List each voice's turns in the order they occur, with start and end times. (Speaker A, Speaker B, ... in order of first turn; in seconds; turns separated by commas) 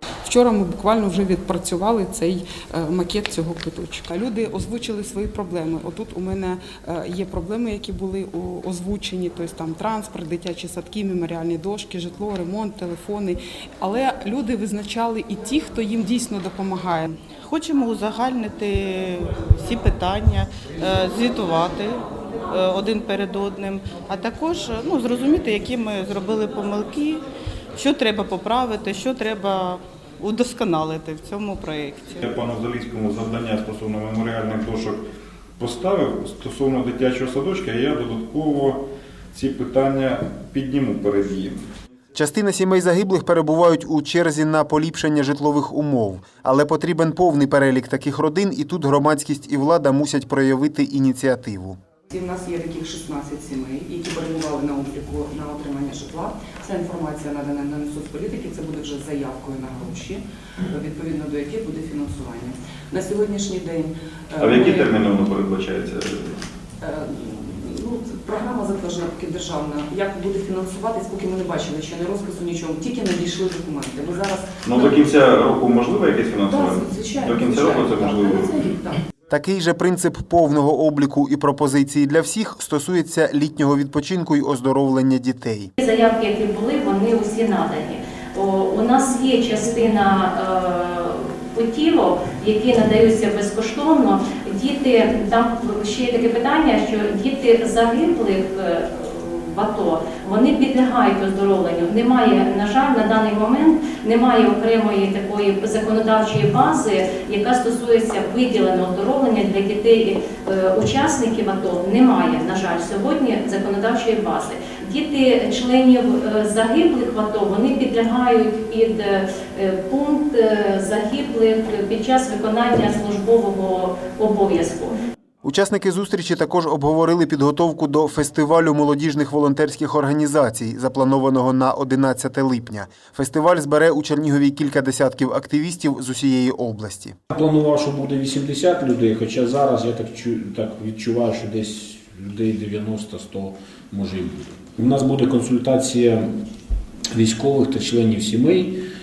Speaker A: 0.2-17.1, Speaker B: 17.4-27.2, Speaker B: 27.8-32.2, Speaker C: 32.2-35.0, Speaker C: 35.6-41.6, Speaker D: 42.1-51.8, Speaker E: 52.1-65.0, Speaker C: 64.4-66.4, Speaker E: 66.8-75.1, Speaker C: 74.6-78.6, Speaker E: 76.4-79.0, Speaker D: 79.3-85.7, Speaker F: 85.8-125.0, Speaker D: 125.4-137.2, Speaker G: 137.3-146.3, Speaker G: 147.1-148.8